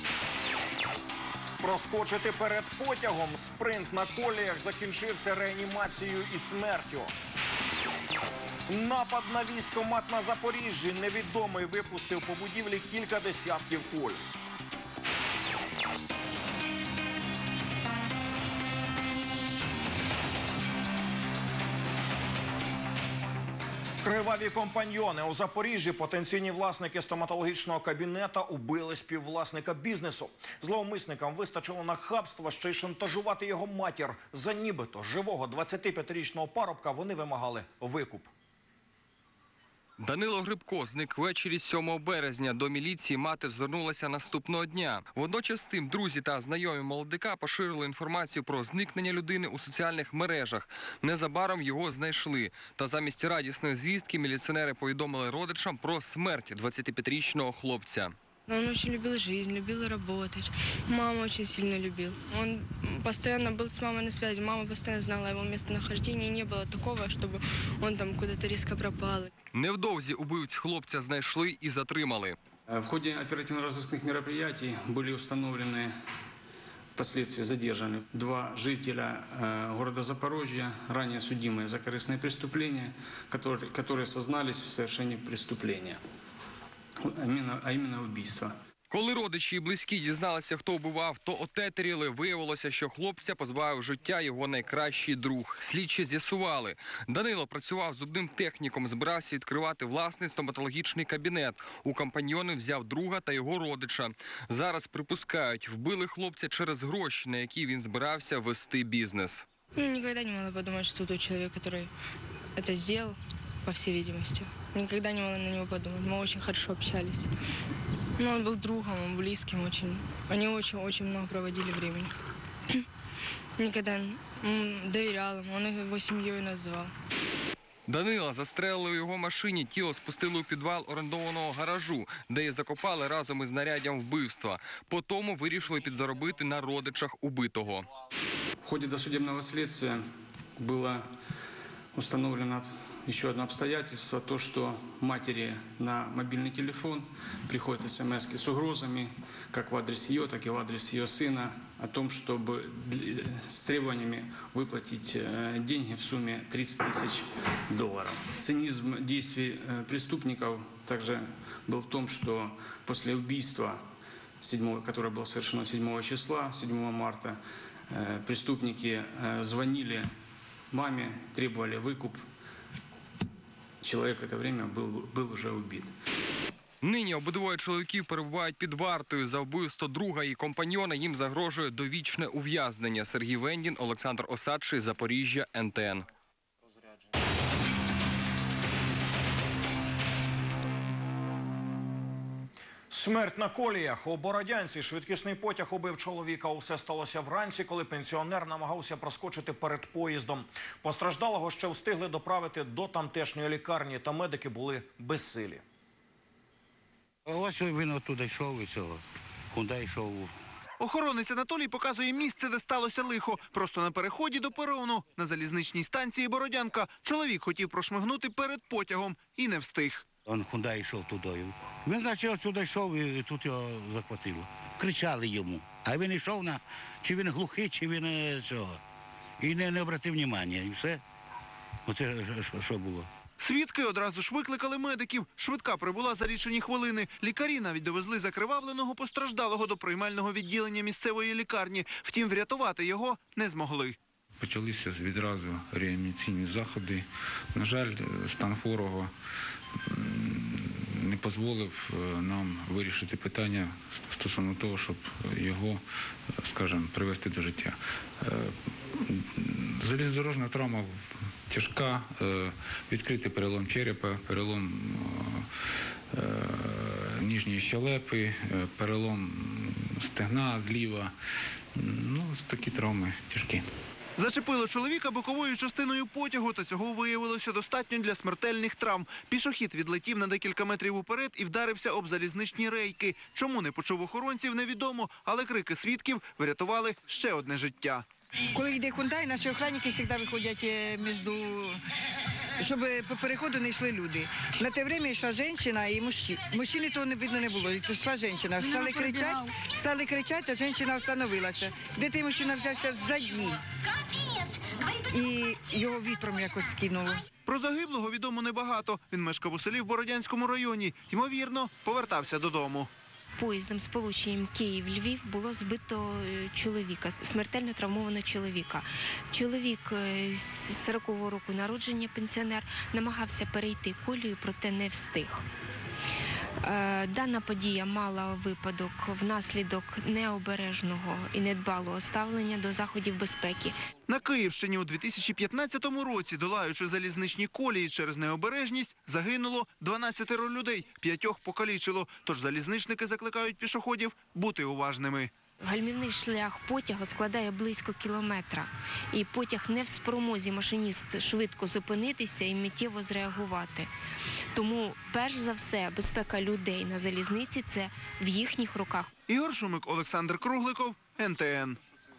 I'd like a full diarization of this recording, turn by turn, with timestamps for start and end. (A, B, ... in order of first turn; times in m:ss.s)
0:01.6-0:07.1 A
0:08.7-0:14.2 A
0:24.0-0:38.3 A
0:40.0-0:58.1 B
0:58.5-1:09.3 C
1:09.5-1:12.4 B
1:12.7-1:15.9 D
1:17.0-1:26.0 D
1:27.0-1:28.5 D
1:28.9-1:49.4 B
1:49.8-1:51.9 C
1:52.6-1:57.3 C
1:58.2-2:02.1 C
2:03.6-2:06.9 C
2:07.9-2:17.9 B
2:18.6-2:21.1 D
2:21.9-2:43.9 D
2:44.4-2:47.4 D
2:47.9-2:50.1 D
2:50.7-2:52.2 D
2:53.8-2:55.9 D
2:56.8-3:06.0 B
3:12.9-3:25.6 A
3:27.2-3:29.0 E
3:29.5-3:30.3 E
3:30.8-3:40.0 F
3:40.2-3:48.8 E
3:49.4-3:51.0 E
3:51.9-3:53.1 E
3:53.4-4:03.9 F
4:04.4-4:09.1 G
4:09.8-4:15.8 G
4:16.3-4:25.5 G
4:26.1-4:31.1 G
4:31.7-4:33.7 G
4:34.2-4:48.0 F
4:48.5-4:51.8 H
4:52.6-5:03.6 H
5:05.1-5:07.2 H
5:07.4-5:12.9 F
5:13.4-5:25.4 I
5:26.6-5:33.7 I
5:34.1-5:45.3 F
5:45.6-5:53.9 I
5:54.5-5:59.1 I
5:59.3-6:01.8 F